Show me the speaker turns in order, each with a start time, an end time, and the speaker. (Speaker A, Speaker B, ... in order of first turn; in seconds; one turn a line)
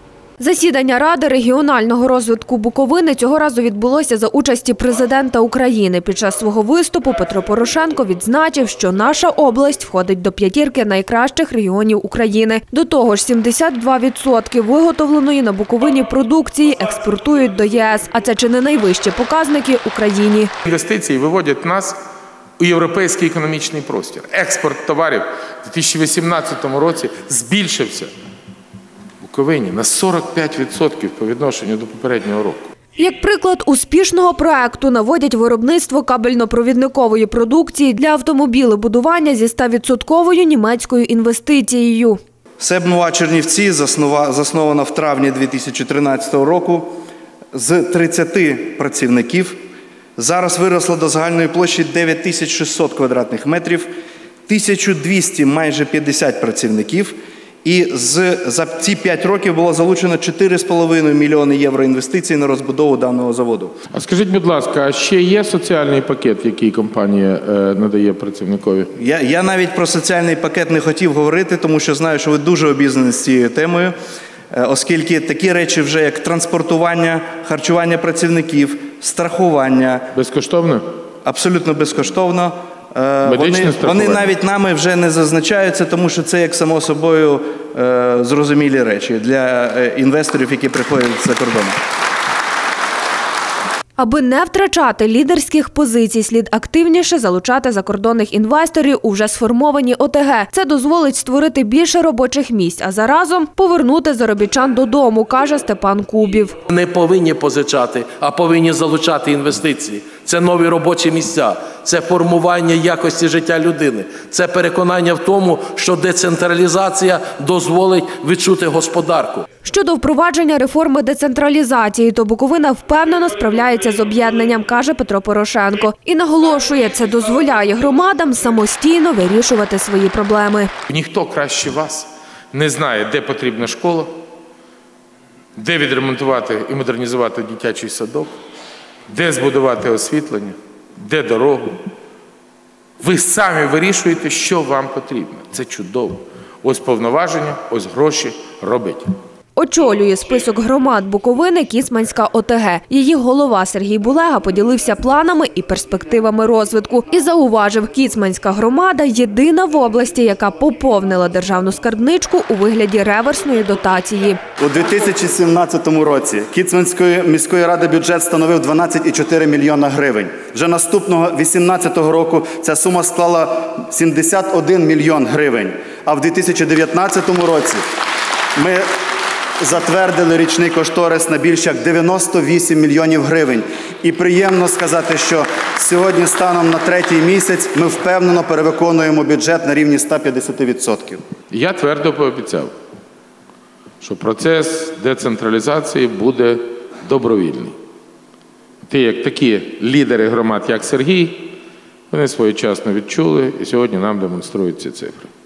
Speaker A: 0.4-20.5
Speaker B: 20.6-22.0
Speaker B: 22.6-28.1
Speaker B: 29.2-32.7
Speaker A: 33.0-42.2
Speaker C: 42.6-47.0
Speaker C: 47.5-49.6
Speaker C: 50.2-53.9
Speaker C: 54.5-63.8
Speaker B: 63.9-68.9
Speaker C: 69.0-73.9
Speaker C: 74.5-80.1
Speaker B: 80.2-80.8
Speaker C: 81.2-91.8
Speaker B: 83.2-84.3
Speaker A: 94.0-106.6
Speaker D: 106.7-119.5
Speaker A: 119.6-130.7
Speaker B: 130.9-134.1
Speaker B: 135.6-138.3
Speaker B: 139.1-141.8
Speaker B: 143.0-149.1
Speaker A: 149.6-164.4
Speaker E: 164.6-177.8
Speaker E: 178.6-178.9
Speaker E: 179.6-191.2
Speaker B: 191.5-192.7
Speaker B: 194.0-197.8
Speaker B: 198.9-201.6
Speaker B: 202.1-205.3